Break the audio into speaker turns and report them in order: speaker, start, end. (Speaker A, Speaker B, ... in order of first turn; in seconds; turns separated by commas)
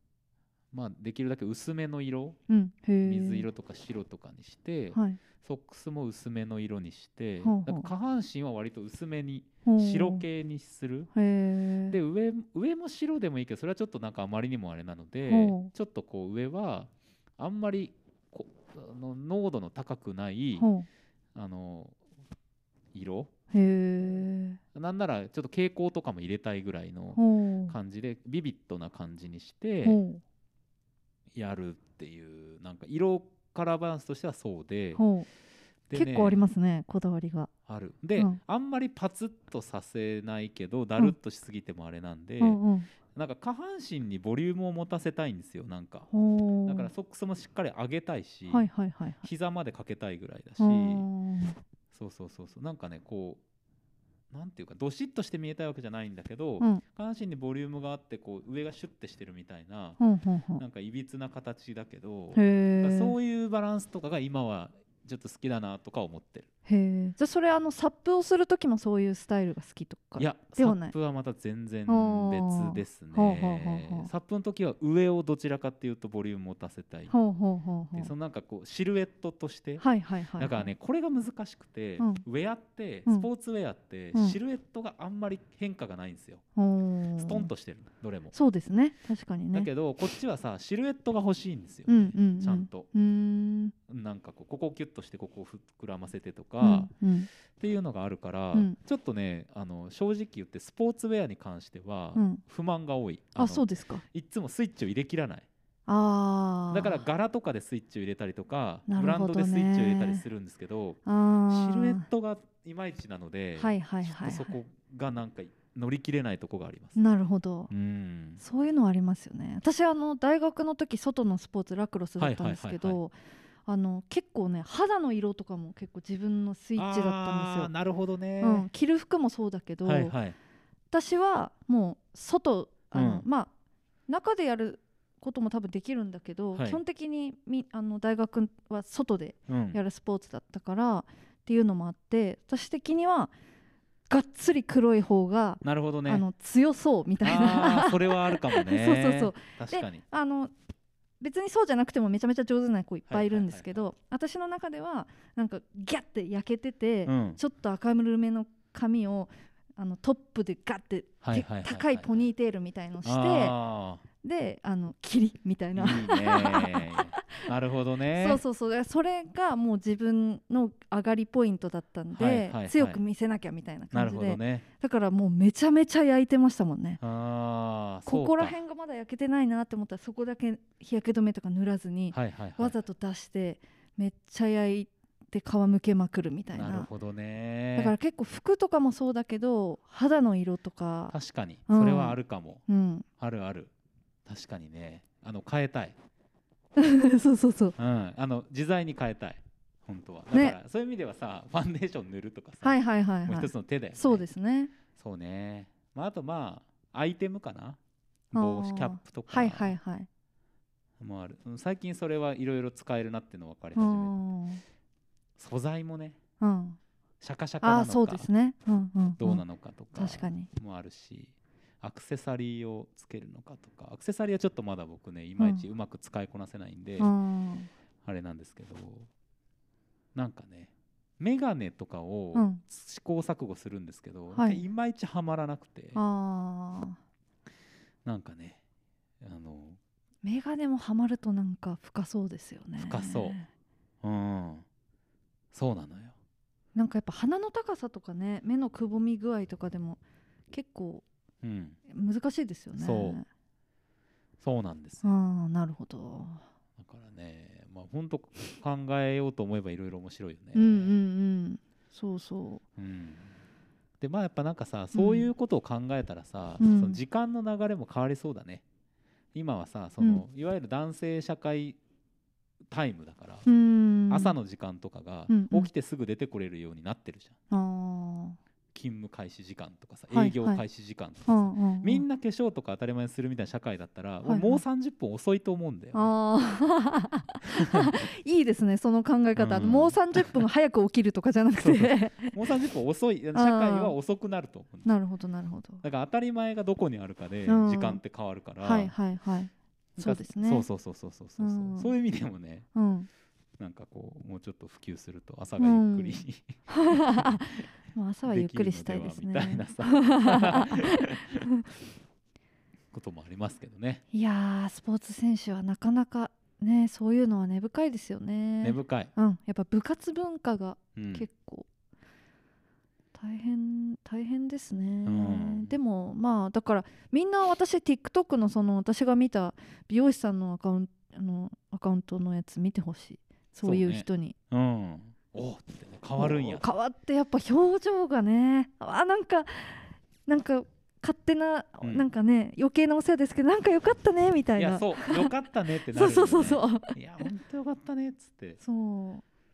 Speaker A: 0.7-2.4, Speaker B: 2.5-3.5, Speaker A: 3.0-11.1, Speaker B: 4.9-5.2, Speaker B: 7.4-7.9, Speaker B: 9.6-10.2, Speaker B: 11.1-12.0, Speaker A: 11.9-20.7, Speaker B: 15.3-15.7, Speaker B: 20.6-20.9, Speaker A: 21.3-21.9, Speaker A: 22.9-23.3, Speaker B: 23.5-24.6, Speaker A: 24.7-30.0, Speaker B: 27.1-27.8, Speaker B: 29.8-30.2, Speaker A: 31.3-35.0, Speaker B: 35.0-35.3, Speaker A: 35.9-36.4, Speaker B: 35.9-37.5, Speaker A: 37.7-42.6, Speaker B: 42.4-42.9, Speaker A: 43.1-46.1, Speaker B: 46.1-46.9, Speaker A: 46.6-48.7, Speaker B: 48.5-49.3, Speaker A: 49.2-51.0, Speaker B: 50.6-51.6, Speaker A: 51.9-53.4, Speaker A: 54.3-60.0, Speaker B: 60.0-60.6, Speaker A: 60.6-66.5, Speaker B: 62.3-63.1, Speaker B: 66.7-70.9, Speaker A: 70.2-77.1, Speaker B: 71.9-74.1, Speaker B: 77.1-78.1, Speaker A: 77.9-79.8, Speaker B: 79.8-80.7, Speaker A: 80.4-86.4, Speaker B: 86.5-87.5, Speaker A: 87.2-88.3, Speaker B: 88.3-89.7, Speaker A: 89.5-92.9, Speaker B: 91.9-93.7, Speaker A: 93.9-96.9, Speaker B: 96.6-97.3, Speaker A: 97.5-105.5, Speaker B: 102.1-102.4, Speaker B: 103.4-104.0, Speaker B: 105.9-107.0, Speaker A: 106.7-117.0, Speaker B: 108.9-110.2, Speaker B: 111.0-112.1, Speaker B: 113.6-114.6, Speaker B: 117.0-117.7, Speaker A: 117.7-118.4, Speaker B: 118.4-123.1, Speaker A: 122.2-123.0, Speaker B: 123.7-127.7, Speaker A: 126.8-128.7, Speaker B: 128.4-130.2, Speaker A: 129.8-130.3, Speaker B: 130.9-133.5, Speaker A: 132.9-133.2, Speaker B: 134.1-143.3, Speaker A: 136.5-136.8, Speaker A: 139.5-139.8, Speaker B: 144.1-150.5, Speaker A: 145.6-146.2, Speaker A: 147.2-150.0, Speaker B: 151.2-163.6, Speaker A: 153.1-153.8, Speaker A: 157.1-157.4, Speaker A: 161.2-162.2, Speaker A: 163.0-164.0, Speaker B: 164.2-167.4, Speaker A: 165.7-168.4, Speaker B: 168.1-177.0, Speaker A: 172.1-173.0, Speaker A: 173.9-174.6, Speaker A: 177.0-178.6, Speaker B: 178.1-186.9, Speaker A: 182.1-182.8, Speaker A: 186.5-187.9, Speaker B: 187.8-191.1, Speaker A: 191.1-192.6, Speaker B: 191.7-193.1, Speaker A: 193.2-193.7, Speaker A: 194.2-195.9, Speaker B: 196.8-197.8, Speaker A: 197.8-204.3, Speaker B: 200.3-200.6, Speaker B: 202.6-204.7, Speaker A: 204.9-207.8, Speaker A: 208.3-209.7, Speaker B: 208.3-210.1, Speaker A: 211.0-214.1, Speaker B: 213.8-214.6, Speaker A: 215.4-216.2, Speaker B: 216.4-216.8, Speaker A: 217.2-218.3, Speaker B: 217.6-220.5, Speaker A: 219.2-227.1, Speaker B: 227.0-227.7, Speaker A: 228.0-229.1, Speaker A: 230.1-236.0, Speaker B: 232.3-232.6, Speaker B: 234.3-234.6, Speaker B: 235.9-237.0, Speaker A: 238.0-238.6, Speaker A: 239.2-239.8, Speaker B: 240.2-243.5, Speaker A: 242.8-243.4, Speaker A: 244.0-244.7, Speaker A: 245.5-246.1, Speaker B: 246.7-250.0, Speaker B: 250.5-251.0, Speaker A: 251.4-251.8, Speaker B: 251.9-253.2, Speaker A: 252.8-253.2, Speaker A: 254.4-255.1, Speaker B: 255.0-256.4, Speaker A: 256.8-260.9, Speaker B: 260.5-262.6, Speaker A: 262.8-263.3, Speaker A: 264.0-268.6, Speaker B: 264.9-265.3, Speaker B: 266.6-267.0, Speaker A: 269.3-271.8, Speaker B: 270.0-270.2, Speaker A: 272.7-273.4, Speaker B: 273.4-274.4, Speaker A: 274.1-277.4, Speaker B: 275.3-275.7, Speaker B: 277.5-278.4, Speaker A: 278.7-286.1, Speaker B: 280.1-280.6, Speaker B: 281.3-282.1, Speaker B: 284.2-284.6, Speaker B: 285.9-292.5, Speaker A: 289.4-290.4, Speaker A: 291.6-294.9, Speaker B: 293.3-293.9, Speaker B: 294.8-295.8, Speaker A: 295.8-298.9, Speaker B: 297.5-298.0, Speaker B: 298.6-300.7, Speaker A: 300.0-302.7, Speaker B: 301.4-301.9, Speaker B: 302.7-303.1, Speaker A: 303.6-307.4, Speaker B: 305.6-311.6, Speaker A: 308.3-311.4, Speaker A: 312.9-314.0, Speaker B: 314.1-321.7, Speaker A: 318.6-319.1, Speaker A: 320.9-321.2, Speaker B: 323.1-334.3, Speaker A: 325.0-325.7, Speaker A: 333.6-336.6, Speaker B: 336.2-345.3, Speaker A: 341.8-342.1, Speaker A: 344.6-348.6, Speaker B: 345.9-347.3, Speaker B: 348.6-349.2